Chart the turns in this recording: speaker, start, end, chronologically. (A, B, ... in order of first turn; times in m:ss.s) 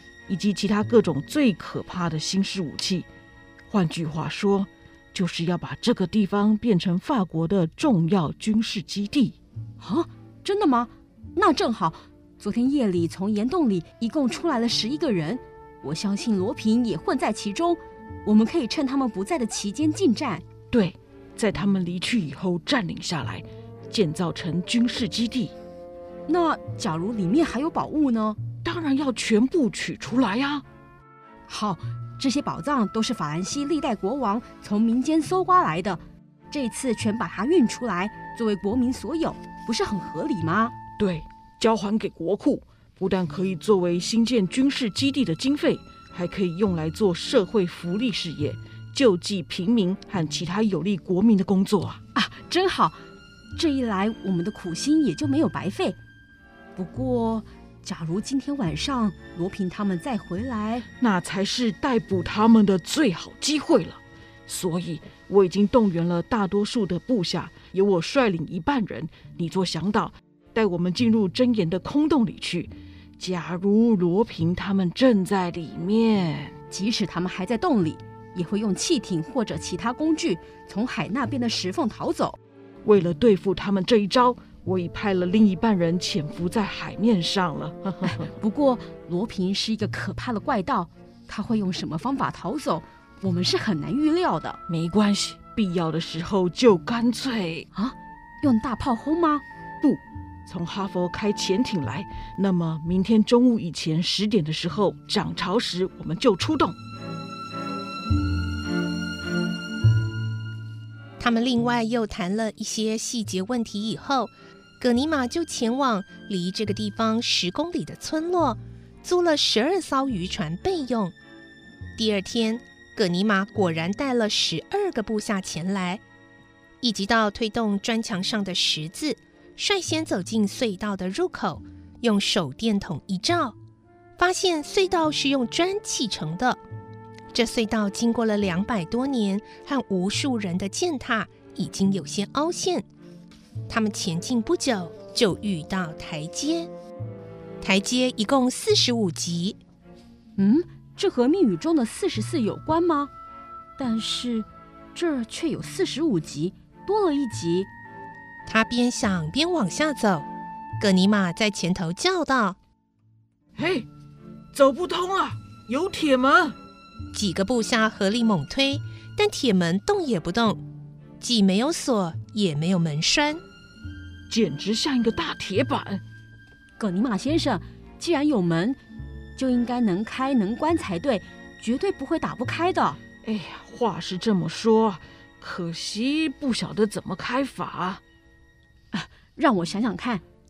0:00.3-0:03.1 A
0:03.7-0:09.4 A
0:09.8-0:20.4 B
0:20.7-0:25.5 A
0:26.3-0:28.4 B
0:28.6-0:30.6 A
0:31.5-0:40.7 B
0:41.0-0:52.0 A
0:52.1-0:53.0 B
0:53.6-0:56.0 B
0:56.8-1:00.9 B
1:01.0-1:16.6 A
1:16.7-1:22.4 B
1:22.8-1:28.3 A
1:28.0-1:34.6 B
1:34.7-1:37.7 A
1:37.7-1:39.4 B
1:39.8-1:46.8 A
1:51.2-2:01.1 C
2:02.0-2:06.0 C
2:06.8-2:13.5 C
2:14.2-2:16.6 C
2:17.3-2:22.8 C
2:23.7-2:26.7 C
2:27.6-2:29.6 C
2:30.4-2:33.1 B
2:33.8-2:37.7 B
2:38.4-2:40.3 C
2:40.8-2:42.6 C
2:43.6-2:43.9 A
2:44.5-2:46.6 A
2:47.1-2:50.6 C
2:51.2-2:53.4 C
2:54.3-2:56.0 A
2:56.8-2:58.8 B
2:59.4-3:03.0 B
3:03.2-3:08.0 A
3:08.9-3:10.2 B